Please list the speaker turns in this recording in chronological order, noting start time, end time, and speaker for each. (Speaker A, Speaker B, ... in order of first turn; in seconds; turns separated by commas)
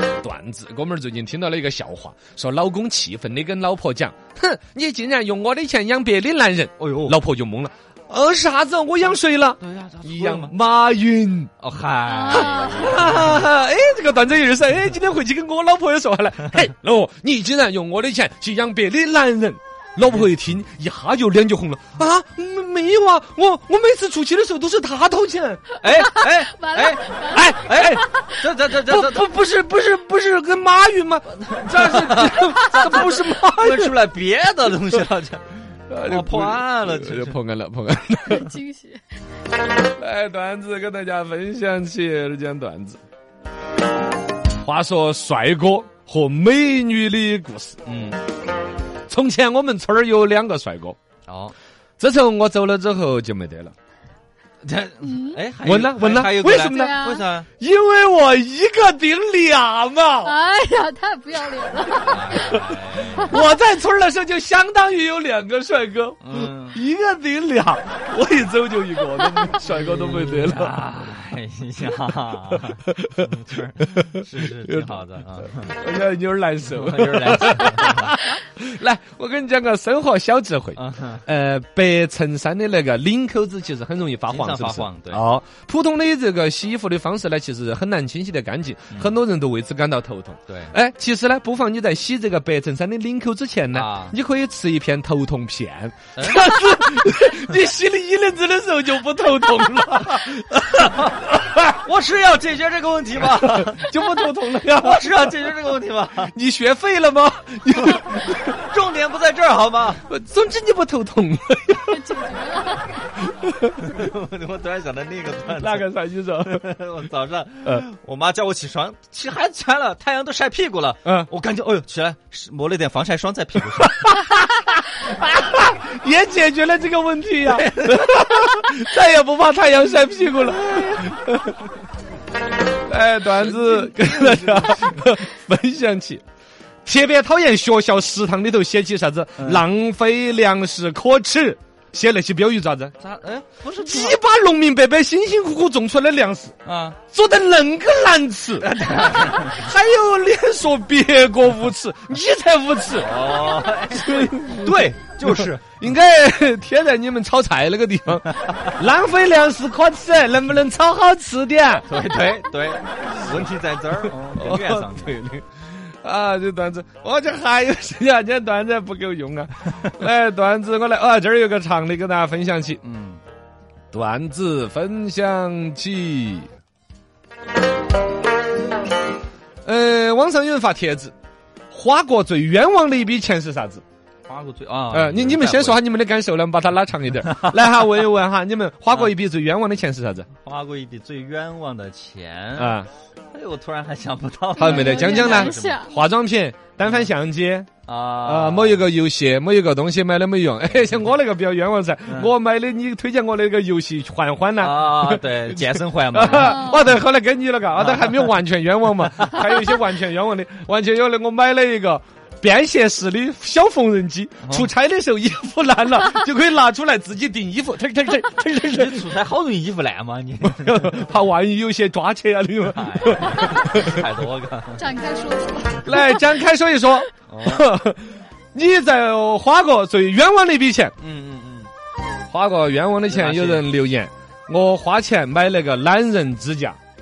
Speaker A: 0.2-11.5, Speaker B: 6.8-7.2, Speaker B: 9.6-10.5, Speaker B: 11.6-13.5, Speaker C: 12.1-13.2, Speaker A: 12.3-25.7, Speaker B: 25.8-29.4, Speaker C: 25.8-28.0, Speaker A: 27.3-28.0, Speaker A: 28.9-34.0, Speaker B: 31.5-35.4, Speaker A: 35.9-38.5, Speaker B: 36.0-37.4, Speaker C: 38.3-39.0, Speaker A: 40.0-43.0, Speaker A: 44.6-47.8, Speaker B: 47.8-48.2, Speaker A: 49.1-51.0, Speaker B: 51.3-51.5, Speaker A: 52.0-53.7, Speaker B: 54.6-57.5, Speaker C: 55.0-55.4, Speaker A: 55.6-57.0, Speaker C: 56.4-57.2, Speaker A: 57.6-60.4, Speaker C: 60.2-62.5, Speaker B: 62.0-63.4, Speaker A: 62.3-62.6, Speaker A: 63.1-70.8, Speaker B: 66.2-66.8, Speaker B: 69.6-75.8, Speaker A: 72.8-73.2, Speaker A: 74.0-74.9, Speaker A: 75.6-101.2, Speaker B: 76.7-78.2, Speaker B: 80.8-81.2, Speaker B: 84.3-85.2, Speaker B: 90.5-90.8, Speaker B: 93.7-94.2, Speaker B: 96.2-96.4, Speaker B: 100.6-104.0, Speaker A: 103.3-105.5, Speaker B: 104.7-106.3, Speaker A: 106.3-108.5, Speaker B: 107.9-110.1, Speaker A: 110.1-112.1, Speaker C: 111.9-113.1, Speaker A: 113.2-114.0, Speaker B: 113.8-115.9, Speaker A: 115.6-116.6, Speaker B: 116.4-124.1, Speaker A: 121.0-121.3, Speaker A: 123.8-131.6, Speaker B: 127.4-128.7, Speaker B: 130.4-131.1, Speaker A: 132.9-136.2, Speaker B: 133.2-135.1, Speaker A: 136.8-142.9, Speaker B: 139.4-139.6, Speaker B: 143.0-144.2, Speaker A: 143.8-146.5, Speaker B: 146.6-147.0, Speaker A: 147.1-148.7, Speaker B: 148.6-149.7, Speaker A: 149.3-153.1, Speaker B: 152.9-155.6, Speaker A: 153.9-161.8, Speaker B: 161.8-165.2, Speaker A: 163.0-163.5, Speaker A: 164.0-172.8, Speaker B: 172.8-173.2, Speaker A: 173.9-176.5, Speaker A: 179.6-181.1, Speaker A: 181.7-183.8, Speaker B: 184.3-185.8, Speaker A: 184.9-190.3, Speaker B: 188.9-189.1, Speaker B: 190.4-195.9, Speaker A: 192.6-192.9, Speaker C: 194.6-196.0, Speaker A: 194.6-197.7, Speaker B: 197.8-198.9, Speaker A: 198.2-219.1, Speaker B: 200.7-201.0, Speaker B: 204.6-206.8, Speaker C: 206.3-206.9, Speaker B: 207.8-208.3, Speaker B: 209.2-209.6, Speaker B: 214.4-214.7, Speaker B: 218.6-221.0, Speaker A: 220.4-224.1, Speaker B: 222.7-224.9, Speaker C: 224.8-226.3, Speaker A: 225.8-230.9, Speaker B: 227.3-227.7, Speaker B: 231.0-231.7, Speaker A: 232.3-236.8, Speaker B: 233.1-233.7